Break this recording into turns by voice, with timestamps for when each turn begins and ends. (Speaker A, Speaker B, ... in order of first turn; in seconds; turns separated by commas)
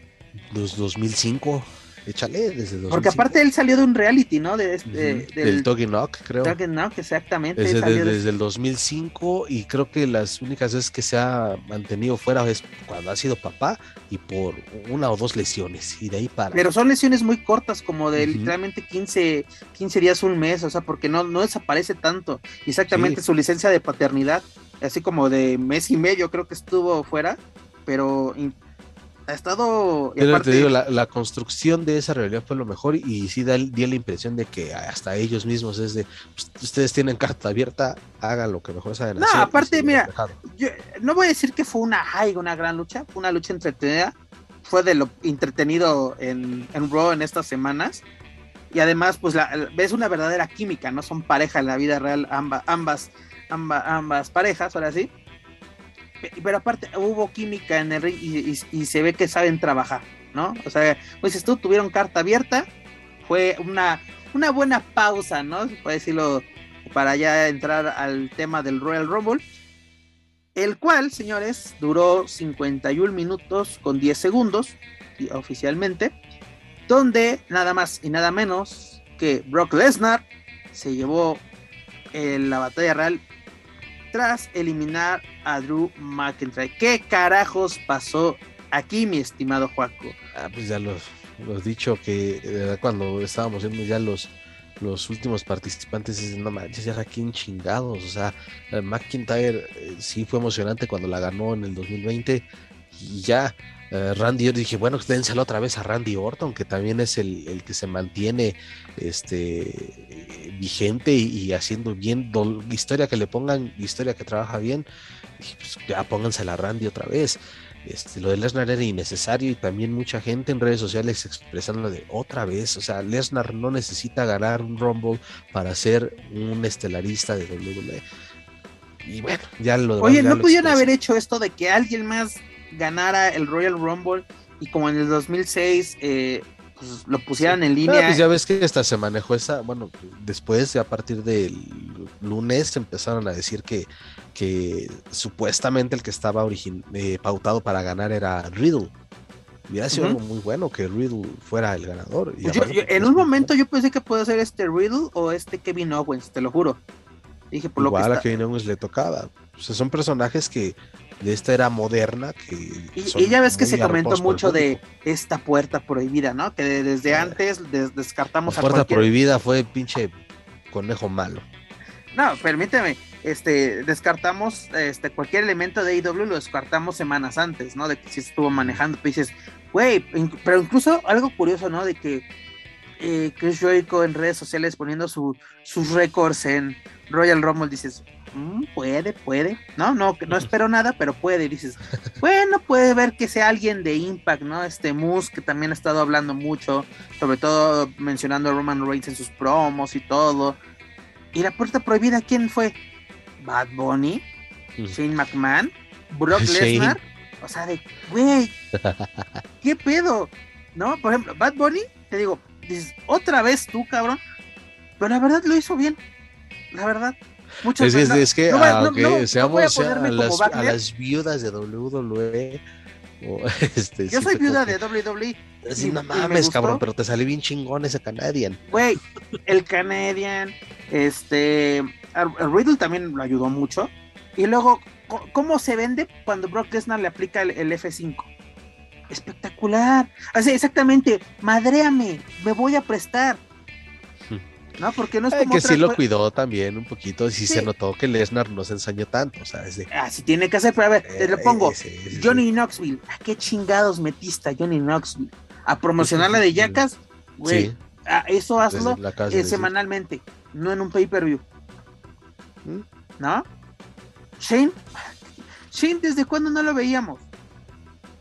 Speaker A: 0.5-3.3, Speaker B: 2.9-5.7, Speaker A: 4.9-6.6, Speaker B: 6.4-8.2, Speaker A: 7.6-16.6, Speaker B: 16.5-28.6, Speaker A: 18.2-18.5, Speaker A: 22.9-23.2, Speaker B: 29.3-30.7, Speaker A: 30.2-40.4, Speaker B: 39.2-48.0, Speaker B: 48.7-55.1, Speaker B: 56.2-62.7, Speaker B: 63.2-69.4, Speaker B: 70.5-76.1, Speaker B: 76.9-81.4, Speaker B: 82.1-83.2, Speaker B: 84.1-90.2, Speaker A: 90.3-114.8, Speaker A: 115.4-128.0, Speaker A: 129.0-130.9, Speaker B: 130.0-138.2, Speaker A: 137.4-148.9, Speaker A: 149.7-153.5, Speaker B: 149.9-150.2, Speaker B: 152.4-156.8, Speaker B: 157.5-158.4, Speaker A: 157.8-164.8, Speaker B: 162.9-169.1, Speaker A: 167.1-167.4, Speaker A: 168.5-170.2, Speaker A: 170.7-171.4, Speaker B: 172.1-182.2, Speaker A: 178.5-178.8, Speaker B: 183.0-200.6, Speaker B: 201.3-202.8, Speaker B: 203.4-204.2, Speaker B: 204.9-208.5, Speaker A: 206.3-207.0, Speaker A: 208.7-209.4, Speaker B: 209.6-214.2, Speaker B: 215.0-216.0, Speaker B: 216.7-220.8, Speaker A: 217.8-222.6, Speaker A: 223.2-224.8, Speaker B: 224.1-226.8, Speaker A: 225.6-228.8, Speaker B: 228.7-238.3, Speaker B: 239.1-243.4, Speaker B: 244.8-246.0, Speaker A: 245.3-249.9, Speaker B: 249.9-261.4, Speaker A: 251.1-252.4, Speaker A: 256.0-256.8, Speaker A: 257.4-257.8, Speaker A: 258.6-259.7, Speaker B: 263.2-263.4, Speaker B: 264.4-264.8, Speaker B: 265.7-267.2